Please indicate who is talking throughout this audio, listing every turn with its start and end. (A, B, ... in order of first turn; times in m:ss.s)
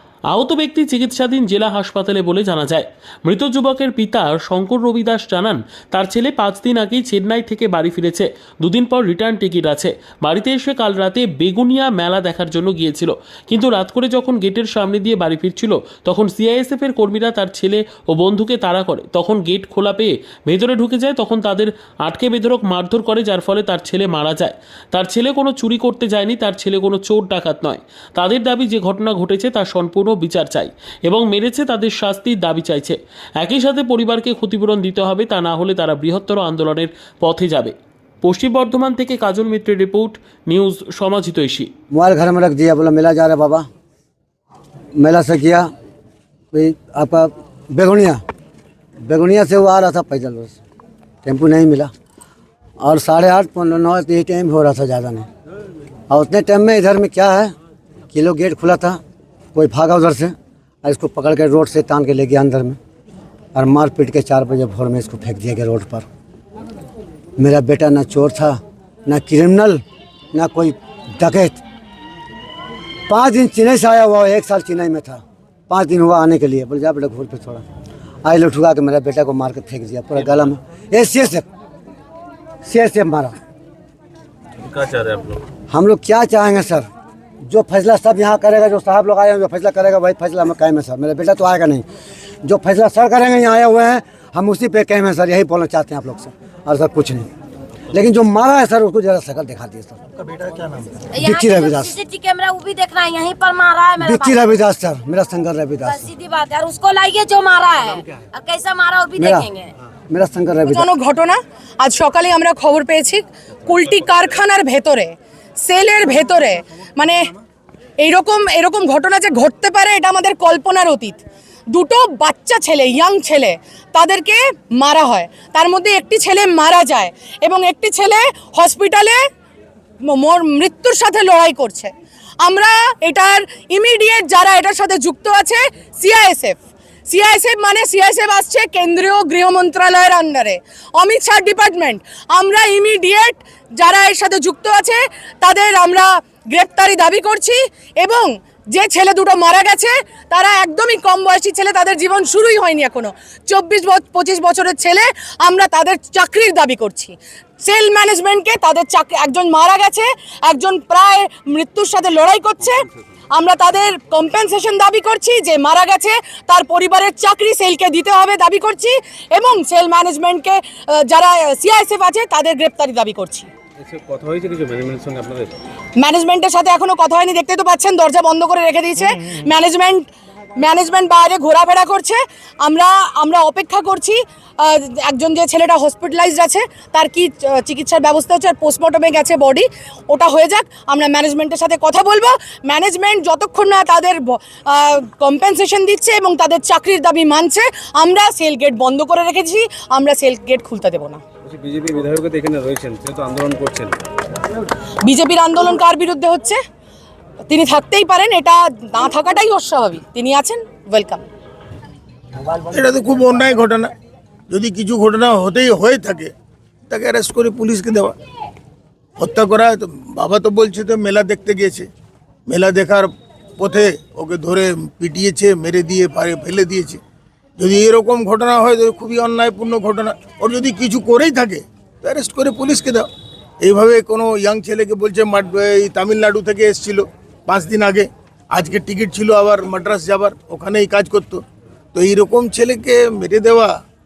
0:00.3-0:41.7 A
0:41.9-0:43.7 B
0:45.0-0:45.7 B
0:46.5-0:48.2 B
0:49.1-0:50.6 B
0:51.2-0:51.9 B
0:52.8-0:55.3 B
0:56.1-0:57.5 B
0:58.1-0:59.0 B
0:59.5-1:02.8 B
1:03.6-1:06.0 B
1:07.4-1:09.8 B
1:10.3-1:11.6 B
1:13.1-1:17.6 B
1:18.2-1:21.4 B
1:22.6-1:23.3 B
1:25.7-1:26.9 B
1:27.4-1:31.8 B
1:32.4-1:37.3 B
1:37.9-1:40.0 B
1:41.1-1:44.6 C
1:41.2-1:42.0 B
1:44.0-1:46.1 B
1:45.8-1:49.7 C
1:49.2-1:49.5 B
1:50.1-1:50.9 B
1:50.7-1:57.3 D
1:58.0-2:09.2 D
2:10.1-2:11.9 D
2:12.4-2:42.8 D
2:43.3-2:53.5 D
2:53.9-2:55.4 E
2:56.0-3:21.2 D
3:21.6-3:22.2 E
3:25.0-3:26.6 D
3:27.5-3:31.2 D
3:32.7-3:33.9 F
3:34.5-3:36.3 F
3:36.9-3:38.1 F
3:39.2-3:41.9 F
3:42.5-3:43.1 F
3:43.6-3:47.0 F
3:47.6-3:53.0 F
3:53.6-4:01.4 F
4:02.0-4:03.7 F